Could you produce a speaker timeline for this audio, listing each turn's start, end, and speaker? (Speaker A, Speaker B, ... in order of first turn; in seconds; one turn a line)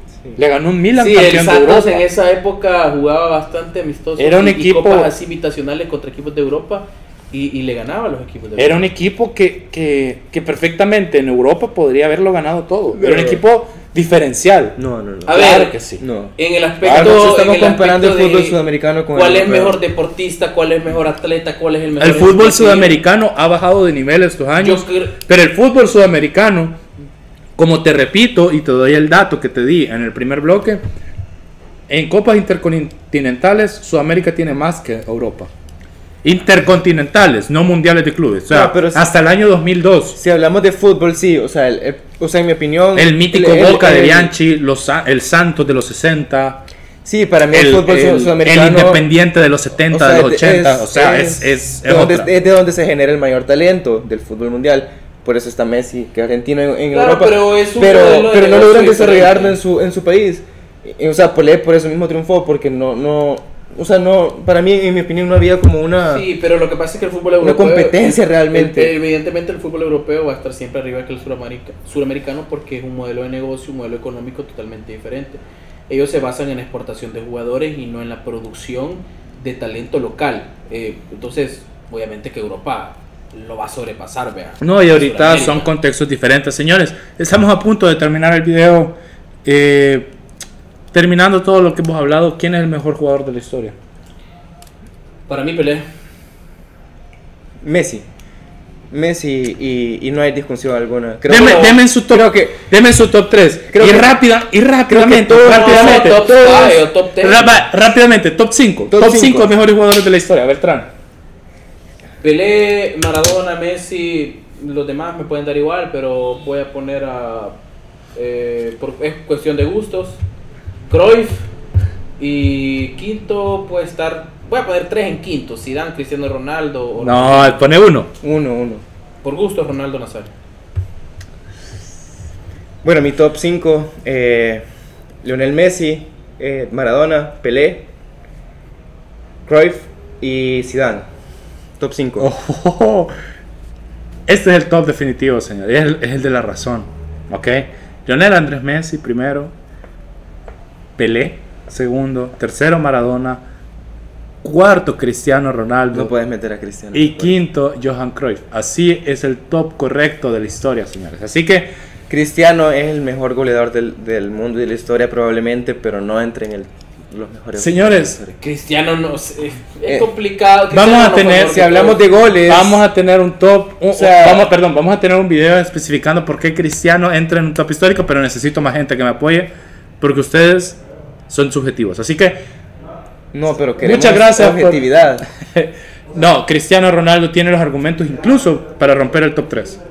Speaker A: 0.3-2.0
Speaker B: 0.9-8.8
Speaker A: 4.2-5.1
Speaker A: 8.6-16.0
Speaker C: 12.9-13.4
Speaker C: 14.8-15.4
Speaker B: 15.3-15.7
Speaker C: 16.0-19.8
Speaker B: 16.4-18.6
Speaker A: 16.8-17.2
Speaker B: 19.1-23.0
Speaker A: 22.0-26.8
Speaker B: 24.6-25.2
Speaker A: 27.6-30.8
Speaker A: 31.9-35.5
Speaker A: 36.2-40.2
Speaker C: 38.5-39.0
Speaker C: 40.1-44.3
Speaker A: 42.9-46.6
Speaker C: 47.0-49.0
Speaker A: 47.5-52.3
Speaker C: 49.9-66.2
Speaker B: 56.9-59.6
Speaker B: 66.1-85.7
Speaker C: 67.4-69.0
Speaker A: 84.6-90.1
Speaker A: 90.9-93.8
Speaker B: 95.3-95.8
Speaker C: 97.6-98.0
Speaker C: 98.9-102.6
Speaker A: 101.3-110.9
Speaker C: 103.7-104.1
Speaker C: 104.9-106.3
Speaker B: 105.5-107.6
Speaker C: 108.9-109.5
Speaker B: 112.2-117.5
Speaker B: 118.1-120.2
Speaker B: 120.9-121.5
Speaker B: 122.2-127.6
Speaker A: 127.0-128.1
Speaker C: 128.2-128.8
Speaker B: 129.2-130.3
Speaker C: 132.8-134.6
Speaker C: 135.2-137.8
Speaker C: 139.4-141.1
Speaker C: 141.8-142.3
Speaker A: 142.2-143.1
Speaker A: 144.3-149.5
Speaker A: 151.0-153.4
Speaker A: 154.4-156.1
Speaker C: 155.9-157.4
Speaker A: 156.9-161.7
Speaker C: 162.1-168.4
Speaker A: 167.5-168.2
Speaker B: 168.4-172.0
Speaker A: 170.7-171.9
Speaker C: 171.7-172.8
Speaker A: 172.5-182.4
Speaker C: 173.9-174.5
Speaker C: 183.3-185.2
Speaker A: 183.8-184.8
Speaker A: 185.5-189.8